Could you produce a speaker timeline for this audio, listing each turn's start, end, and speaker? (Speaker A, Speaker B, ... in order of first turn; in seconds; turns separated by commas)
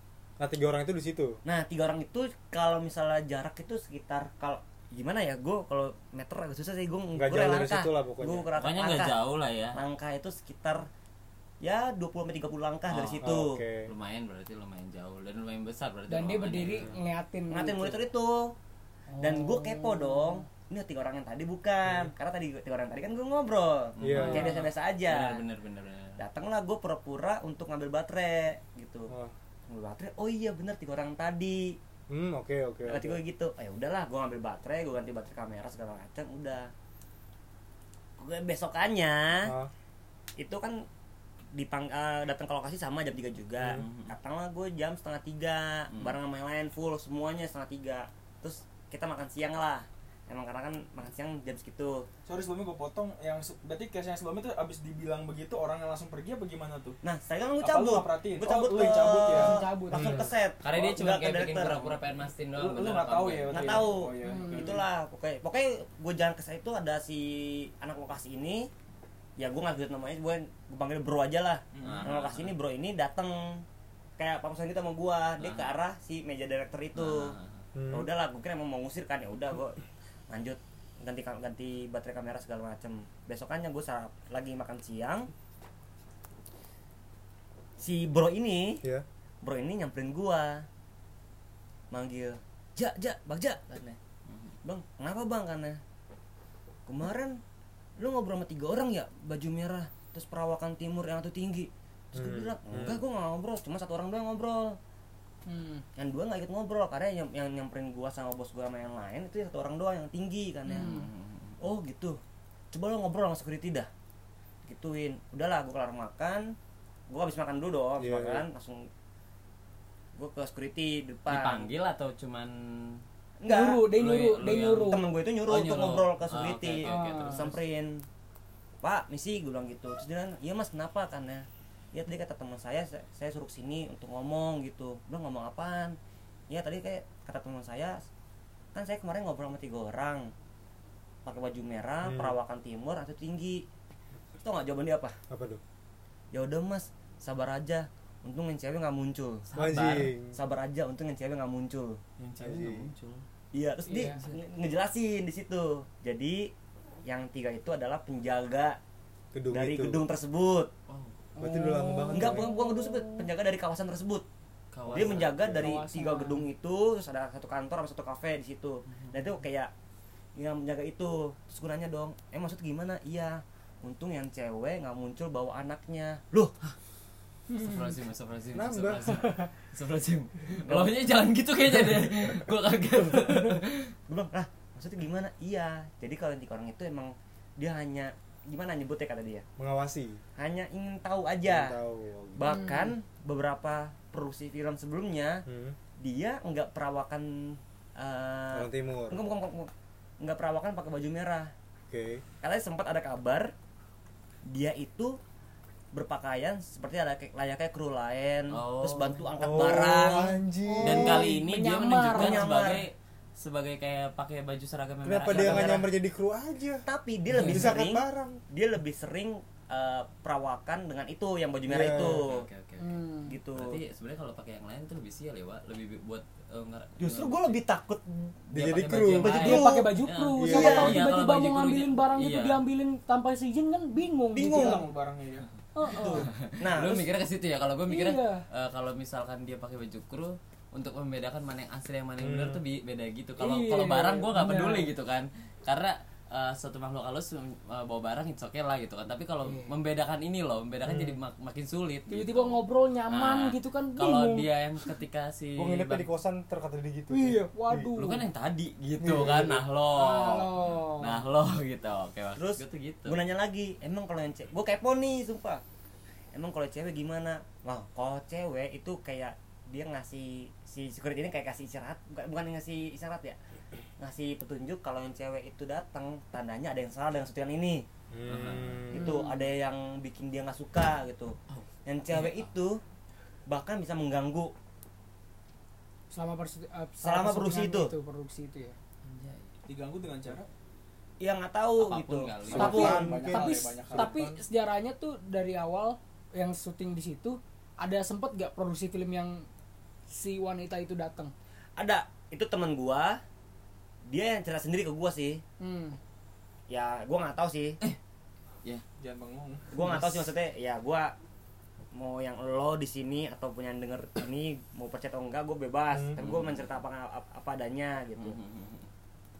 Speaker A: 0.4-1.4, Speaker B: 1.4-9.2, Speaker A: 7.2-8.5, Speaker C: 8.6-9.8, Speaker B: 9.7-10.9, Speaker B: 11.6-13.6, Speaker C: 12.9-17.0, Speaker A: 13.2-13.9, Speaker D: 16.1-18.0, Speaker B: 17.5-18.6, Speaker D: 19.1-20.4, Speaker B: 19.2-25.4, Speaker A: 21.9-22.1, Speaker C: 24.0-26.2, Speaker A: 24.0-24.5, Speaker D: 24.1-24.6, Speaker B: 26.2-29.1, Speaker B: 29.7-31.8, Speaker A: 32.1-33.2, Speaker B: 32.9-36.7, Speaker B: 38.2-39.5, Speaker A: 39.5-39.7, Speaker B: 40.4-40.9, Speaker B: 41.5-52.1, Speaker C: 43.6-44.1, Speaker E: 52.3-57.0, Speaker B: 57.0-62.0, Speaker E: 57.6-59.7, Speaker D: 59.3-60.2, Speaker A: 59.9-60.3, Speaker C: 60.6-64.0, Speaker E: 62.5-64.8, Speaker B: 63.5-68.7, Speaker D: 64.2-64.8, Speaker B: 69.4-73.7, Speaker E: 71.7-72.1, Speaker C: 71.8-72.5, Speaker B: 74.2-77.3, Speaker C: 75.4-75.7, Speaker C: 77.0-77.6, Speaker A: 77.8-78.1, Speaker B: 77.9-85.3, Speaker B: 87.8-88.8, Speaker B: 89.4-90.7, Speaker B: 91.9-94.0, Speaker C: 94.3-94.5, Speaker B: 94.6-95.8, Speaker B: 96.9-97.4, Speaker B: 98.0-104.8, Speaker A: 102.1-103.0, Speaker D: 105.5-105.8, Speaker B: 106.0-111.0, Speaker D: 110.7-111.1, Speaker C: 110.7-111.6, Speaker B: 111.6-112.2, Speaker B: 112.7-113.9, Speaker B: 114.7-116.5, Speaker B: 117.1-118.9, Speaker A: 118.0-118.4, Speaker B: 120.2-121.7, Speaker C: 121.3-123.0, Speaker B: 123.4-123.9, Speaker D: 123.5-125.0, Speaker C: 123.9-127.6, Speaker B: 124.8-128.0, Speaker D: 126.8-127.5, Speaker B: 128.8-136.0, Speaker B: 136.5-138.0, Speaker B: 138.8-140.3, Speaker B: 141.2-143.7, Speaker A: 142.0-142.4, Speaker B: 144.4-145.2, Speaker A: 145.3-145.6, Speaker B: 146.3-149.4, Speaker C: 149.5-150.1, Speaker A: 149.6-150.4, Speaker B: 150.3-152.0, Speaker C: 152.2-153.2, Speaker A: 152.4-152.9, Speaker B: 153.5-156.5, Speaker D: 153.9-154.3, Speaker B: 157.1-158.8, Speaker A: 159.3-160.0, Speaker B: 159.5-160.7, Speaker C: 160.9-161.2, Speaker D: 161.4-163.3, Speaker A: 161.4-162.5, Speaker B: 162.1-164.2, Speaker C: 164.7-165.6, Speaker A: 164.9-165.7, Speaker B: 164.9-169.7, Speaker D: 165.6-166.4, Speaker C: 168.9-169.3, Speaker B: 170.4-176.5, Speaker D: 177.5-177.9, Speaker C: 177.5-183.9, Speaker A: 178.5-179.2, Speaker D: 179.1-179.5, Speaker B: 180.7-180.9, Speaker B: 184.1-189.4, Speaker A: 189.6-190.2, Speaker B: 190.4-191.8, Speaker A: 191.4-192.6, Speaker B: 192.3-195.4, Speaker D: 192.5-192.9, Speaker A: 195.5-195.8, Speaker B: 196.0-201.5, Speaker A: 198.5-199.2, Speaker A: 201.9-202.2, Speaker B: 202.4-203.5, Speaker B: 204.4-205.2, Speaker B: 205.9-210.4, Speaker C: 208.5-209.6, Speaker A: 209.4-211.3, Speaker D: 210.6-212.5, Speaker C: 210.8-215.8, Speaker B: 212.1-212.8, Speaker A: 215.0-218.4, Speaker B: 215.2-215.9, Speaker B: 216.9-222.5, Speaker C: 217.4-217.7, Speaker A: 221.7-222.2, Speaker C: 221.9-223.0, Speaker D: 222.8-223.4, Speaker B: 223.3-223.8, Speaker C: 223.6-227.6, Speaker B: 227.0-228.4, Speaker A: 228.5-229.6, Speaker C: 228.5-232.6, Speaker B: 229.2-229.9, Speaker D: 229.3-234.9, Speaker A: 230.4-231.1, Speaker B: 230.5-231.0, Speaker B: 234.3-234.8, Speaker E: 234.4-235.5, Speaker D: 235.8-236.3, Speaker B: 235.8-237.1, Speaker C: 235.9-256.1, Speaker D: 237.9-238.4, Speaker A: 242.2-242.6, Speaker D: 243.4-244.9, Speaker D: 249.4-249.7, Speaker A: 250.8-251.2, Speaker D: 252.1-254.9, Speaker A: 255.6-257.9, Speaker D: 257.1-258.2, Speaker C: 258.0-263.2, Speaker A: 259.0-259.6, Speaker D: 259.9-261.2, Speaker B: 262.4-265.6, Speaker B: 266.3-273.4, Speaker B: 274.0-277.9, Speaker A: 278.1-279.1, Speaker C: 278.3-278.9, Speaker B: 278.9-282.8, Speaker D: 278.9-279.4, Speaker C: 281.5-282.5, Speaker B: 283.5-284.5, Speaker D: 286.1-288.8, Speaker B: 287.0-287.9, Speaker C: 289.0-289.5, Speaker E: 289.7-290.5, Speaker B: 291.2-293.2, Speaker C: 291.8-293.0, Speaker E: 292.5-294.3, Speaker A: 292.5-294.4, Speaker D: 292.5-299.5, Speaker D: 300.1-301.3, Speaker B: 301.8-303.2, Speaker B: 304.1-305.4, Speaker D: 305.6-306.0, Speaker B: 306.7-307.8, Speaker E: 309.0-310.0, Speaker B: 309.7-311.1, Speaker B: 311.9-318.4, Speaker A: 315.9-316.2, Speaker C: 316.2-316.7, Speaker C: 318.2-318.9